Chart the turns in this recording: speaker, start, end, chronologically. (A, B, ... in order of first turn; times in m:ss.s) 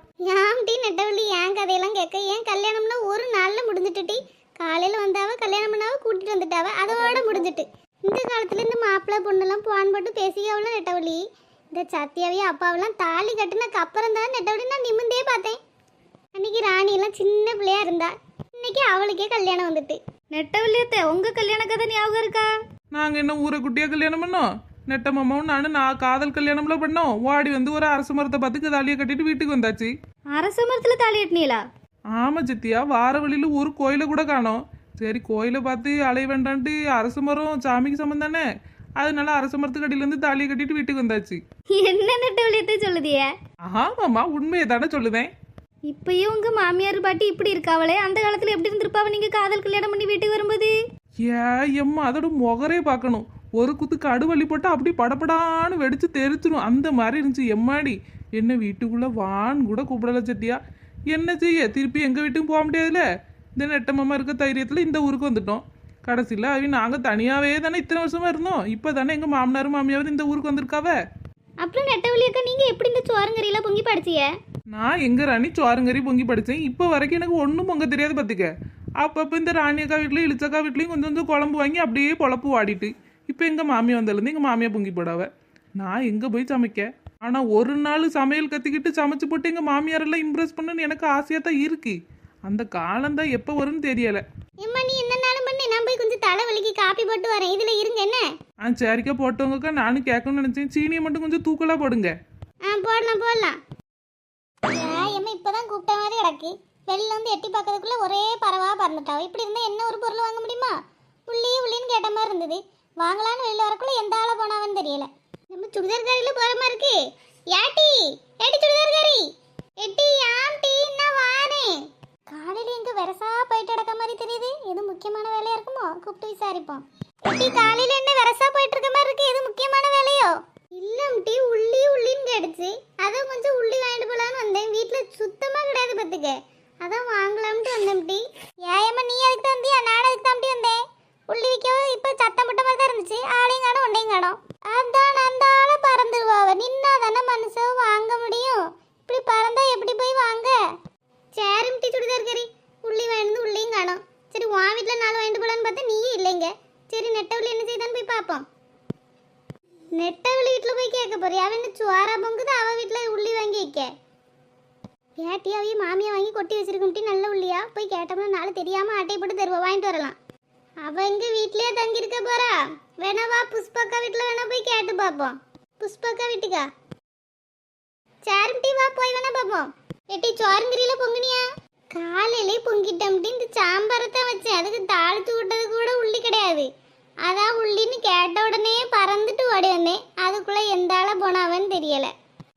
0:00.3-0:11.2 A
0:11.8-0:15.6 A
0:16.4-0:20.0 A
0:20.3-0:22.5 B
0:22.9-0:29.9 C
0:30.3-0:31.6 B
0:32.1-0:38.4 C
0:39.0-0:41.4 C
0:41.8-0:43.3 B
0:43.7-0:45.3 C
0:45.9-0:50.7 B
0:51.2-1:00.6 C
1:01.1-1:03.0 C
1:03.6-1:11.0 C
1:11.6-1:14.3 B
1:14.7-1:18.5 C
1:19.0-1:25.3 C
1:25.8-1:34.2 C
1:34.6-1:38.3 A
1:38.6-1:42.1 C
1:42.7-1:43.6 A
1:44.7-1:50.7 A
1:51.3-1:57.0 A
1:57.5-1:59.2 A
1:59.8-2:01.7 A
2:02.3-2:20.8 A
2:21.3-2:30.6 A
2:31.4-2:38.4 A
2:40.0-2:43.9 A
2:45.2-2:50.2 A
2:50.8-2:56.6 A
2:58.3-3:06.7 A
3:07.3-3:12.1 A